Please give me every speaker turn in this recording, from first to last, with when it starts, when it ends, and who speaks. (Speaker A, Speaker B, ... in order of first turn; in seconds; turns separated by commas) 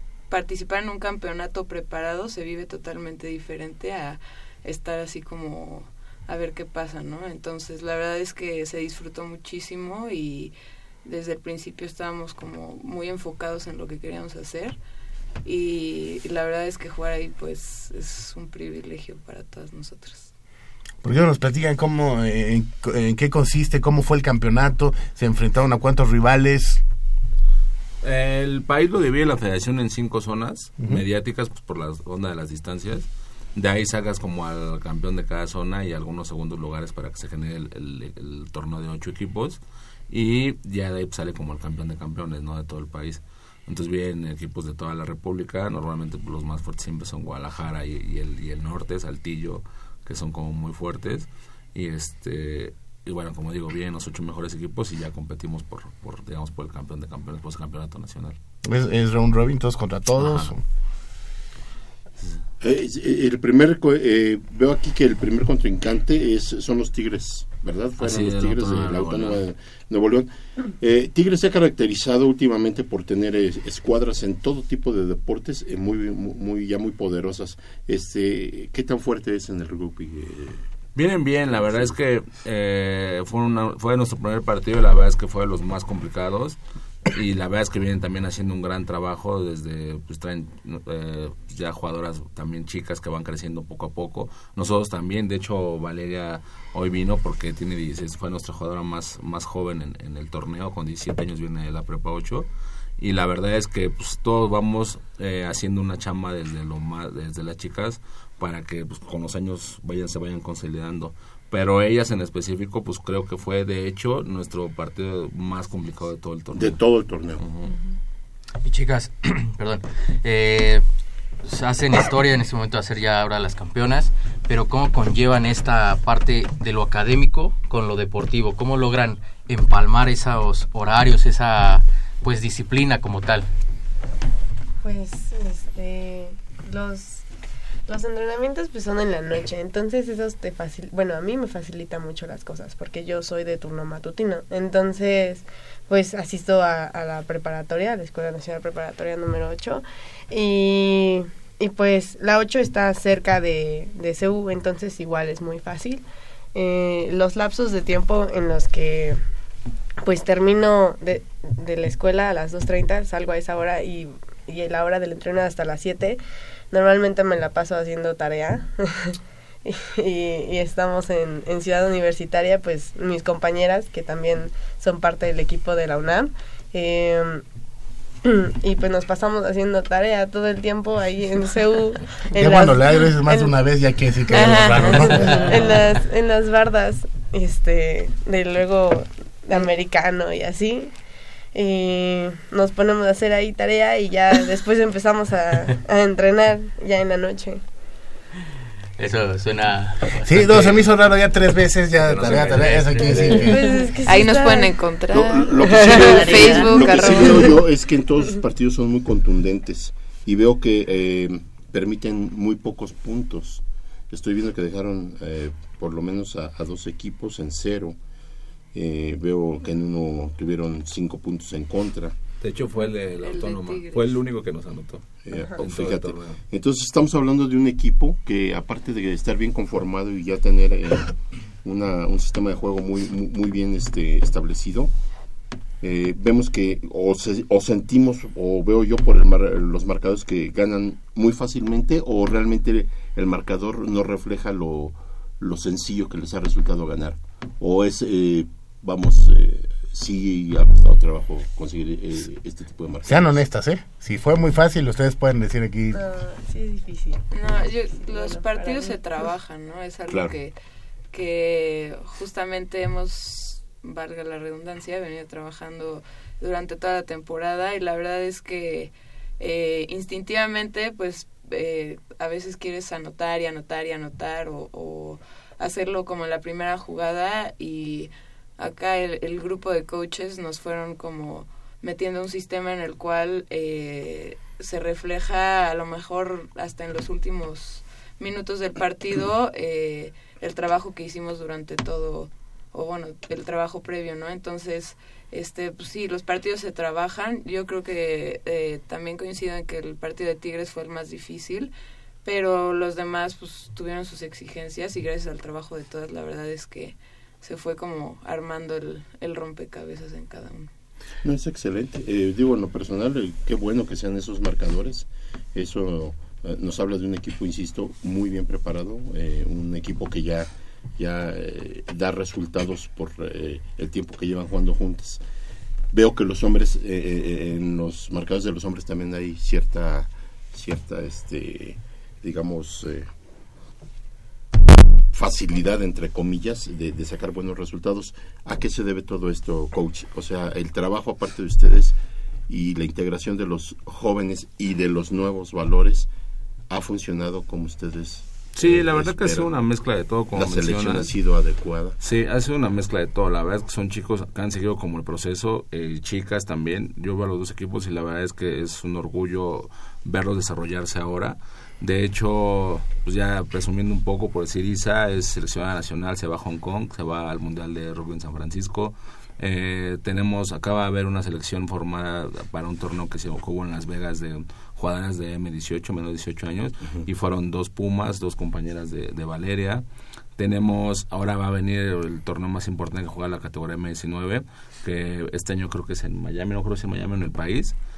Speaker A: 0.3-10.5, Speaker A: 11.0-14.8, Speaker A: 15.4-20.3, Speaker B: 21.0-26.8, Speaker C: 28.0-58.4, Speaker B: 58.6-60.6, Speaker C: 60.2-60.5, Speaker D: 62.6-80.6, Speaker C: 68.0-69.4, Speaker C: 81.0-86.6, Speaker D: 81.5-81.9, Speaker C: 87.1-102.5, Speaker C: 103.0-116.8, Speaker D: 116.5-117.4, Speaker C: 117.4-117.7, Speaker E: 118.6-120.8, Speaker E: 121.5-133.5, Speaker F: 134.8-137.2, Speaker F: 137.9-159.2, Speaker F: 160.0-166.2, Speaker F: 166.7-169.1, Speaker F: 169.7-177.4, Speaker F: 178.2-183.6, Speaker B: 182.4-185.8, Speaker F: 184.3-190.9, Speaker A: 184.3-185.4, Speaker F: 191.5-197.6, Speaker E: 199.0-200.9, Speaker B: 200.2-203.6, Speaker C: 202.0-203.5, Speaker E: 202.2-203.6, Speaker F: 203.1-204.8, Speaker A: 203.6-207.6, Speaker D: 205.1-218.0, Speaker F: 205.6-207.6, Speaker D: 218.7-222.2, Speaker C: 222.4-225.1, Speaker A: 222.7-224.2, Speaker D: 225.3-234.9, Speaker C: 225.6-226.4, Speaker D: 235.8-253.4, Speaker B: 253.1-256.1, Speaker F: 255.9-259.3, Speaker A: 257.3-260.5, Speaker D: 260.1-260.3, Speaker A: 261.1-301.7, Speaker A: 302.2-310.7, Speaker D: 311.2-325.2, Speaker D: 325.9-333.1, Speaker D: 335.1-342.0, Speaker D: 342.5-346.1, Speaker D: 346.7-349.5, Speaker C: 348.6-351.1, Speaker D: 350.3-352.0, Speaker C: 352.0-379.8, Speaker C: 380.4-387.7